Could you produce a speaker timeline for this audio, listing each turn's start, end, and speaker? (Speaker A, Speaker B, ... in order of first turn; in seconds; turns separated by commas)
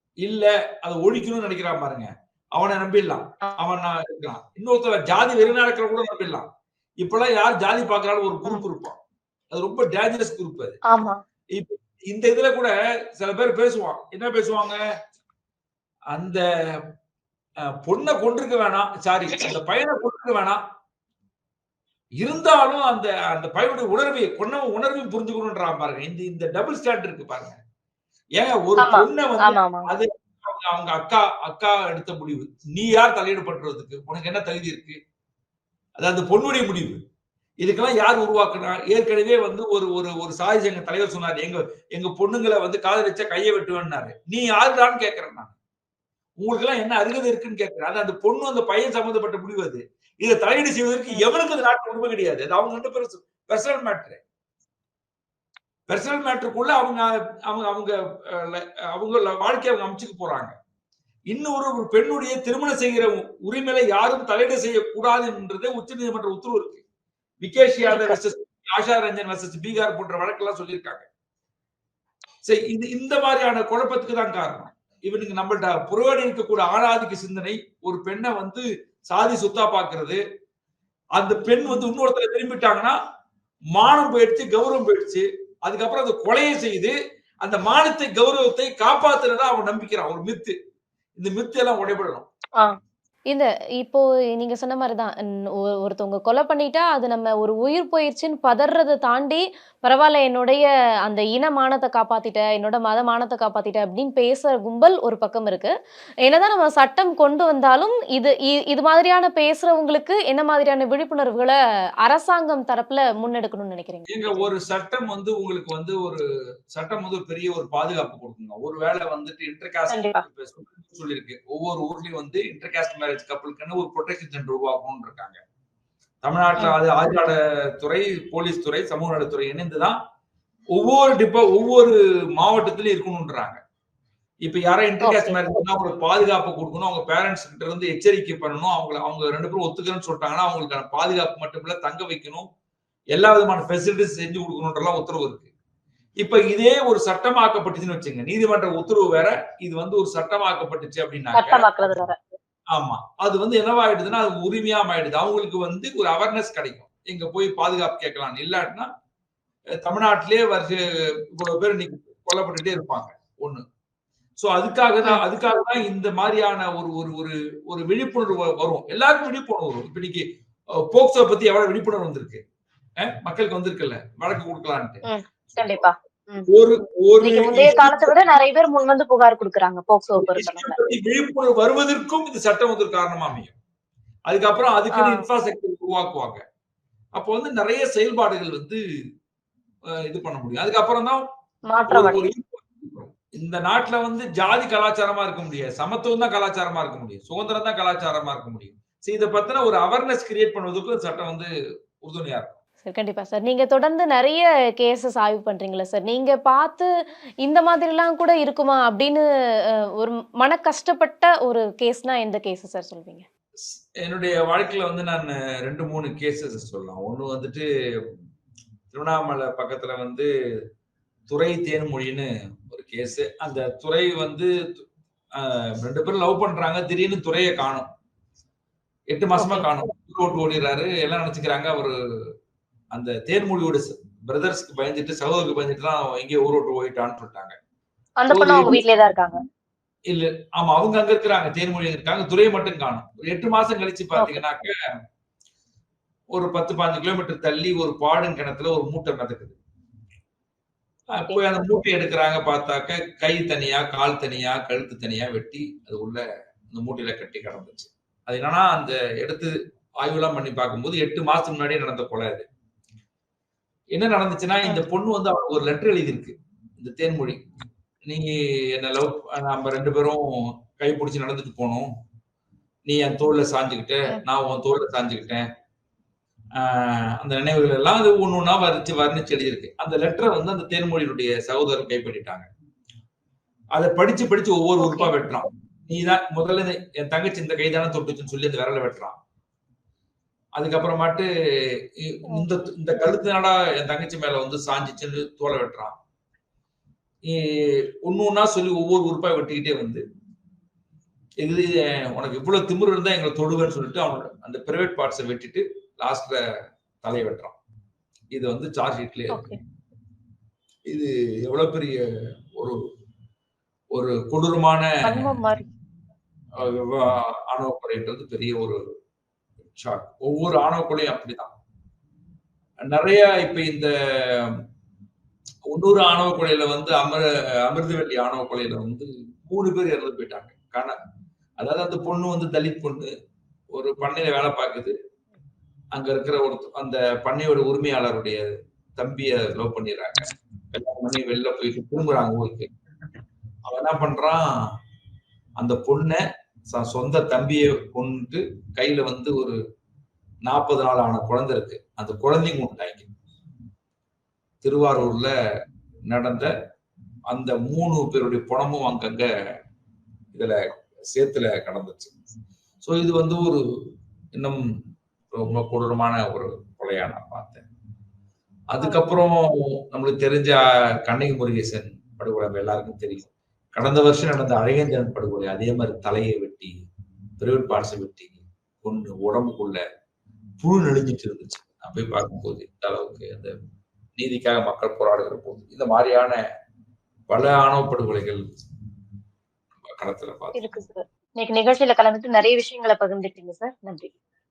Speaker A: 0.2-6.5, Speaker A: 7.0-9.0, Speaker A: 9.5-10.8, Speaker B: 10.9-11.2, Speaker A: 11.6-14.8, Speaker A: 16.1-16.4, Speaker A: 17.8-20.6, Speaker A: 22.2-27.6, Speaker A: 28.4-35.0, Speaker B: 28.8-29.9, Speaker A: 36.0-37.0, Speaker A: 37.6-45.5, Speaker A: 46.4-54.2, Speaker A: 55.9-60.5, Speaker A: 61.3-66.8, Speaker A: 67.4-71.1, Speaker B: 67.8-68.2, Speaker A: 72.4-80.2, Speaker A: 81.2-83.0, Speaker A: 83.7-90.5, Speaker A: 91.2-92.2, Speaker C: 93.3-95.1, Speaker C: 95.8-105.7, Speaker C: 106.3-114.4, Speaker A: 114.1-116.2, Speaker A: 116.7-125.4, Speaker B: 119.9-120.2, Speaker A: 126.2-130.0, Speaker A: 130.7-133.6, Speaker A: 134.4-142.5, Speaker B: 135.0-135.4, Speaker A: 143.1-145.5, Speaker A: 146.2-151.7, Speaker B: 151.3-152.2, Speaker A: 152.7-158.9, Speaker A: 159.8-160.8, Speaker A: 161.3-163.6, Speaker A: 164.4-170.2, Speaker A: 170.9-172.4, Speaker A: 173.0-175.8, Speaker B: 175.1-176.5, Speaker A: 176.5-178.3, Speaker B: 177.2-180.8, Speaker A: 180.2-183.5, Speaker A: 184.3-186.4, Speaker B: 184.9-185.2, Speaker A: 187.2-188.8, Speaker A: 190.1-191.2, Speaker B: 191.7-192.2, Speaker A: 191.9-201.5, Speaker A: 202.0-202.5, Speaker C: 202.8-206.9, Speaker C: 207.4-209.2, Speaker C: 210.0-213.2, Speaker A: 214.0-217.7, Speaker A: 218.9-220.3, Speaker A: 221.3-224.8, Speaker A: 225.4-227.9, Speaker A: 229.1-231.9, Speaker B: 229.3-229.7, Speaker A: 232.9-237.6, Speaker B: 238.2-239.4, Speaker A: 238.3-238.8, Speaker A: 240.1-244.7, Speaker B: 244.2-244.4, Speaker A: 246.3-249.6, Speaker A: 251.2-262.4, Speaker A: 263.9-267.4, Speaker A: 268.1-271.9, Speaker A: 272.9-275.4, Speaker A: 276.6-282.5, Speaker A: 283.8-289.1, Speaker B: 284.8-285.1, Speaker A: 290.6-291.3, Speaker A: 292.0-295.9, Speaker A: 297.3-300.0, Speaker A: 301.4-306.4, Speaker A: 307.0-307.6, Speaker A: 308.3-309.4, Speaker B: 309.3-309.6, Speaker A: 310.9-312.0, Speaker A: 313.9-315.4, Speaker B: 315.0-315.7, Speaker A: 316.6-318.8, Speaker A: 319.7-321.5, Speaker A: 322.8-324.6, Speaker A: 325.7-330.9, Speaker A: 331.6-333.1, Speaker A: 333.7-334.9, Speaker A: 335.9-340.2, Speaker A: 340.7-342.7, Speaker A: 343.7-344.4, Speaker A: 345.6-346.2, Speaker A: 346.7-349.6, Speaker A: 350.5-353.1, Speaker A: 354.6-355.3, Speaker A: 356.1-356.5, Speaker A: 357.3-359.2, Speaker A: 361.1-362.1, Speaker A: 362.8-363.6, Speaker A: 364.3-364.6, Speaker A: 365.3-367.6, Speaker A: 368.7-376.7, Speaker A: 377.4-379.8, Speaker A: 380.6-383.5, Speaker A: 384.2-386.4, Speaker A: 387.3-388.4, Speaker A: 389.8-390.9, Speaker B: 390.5-394.1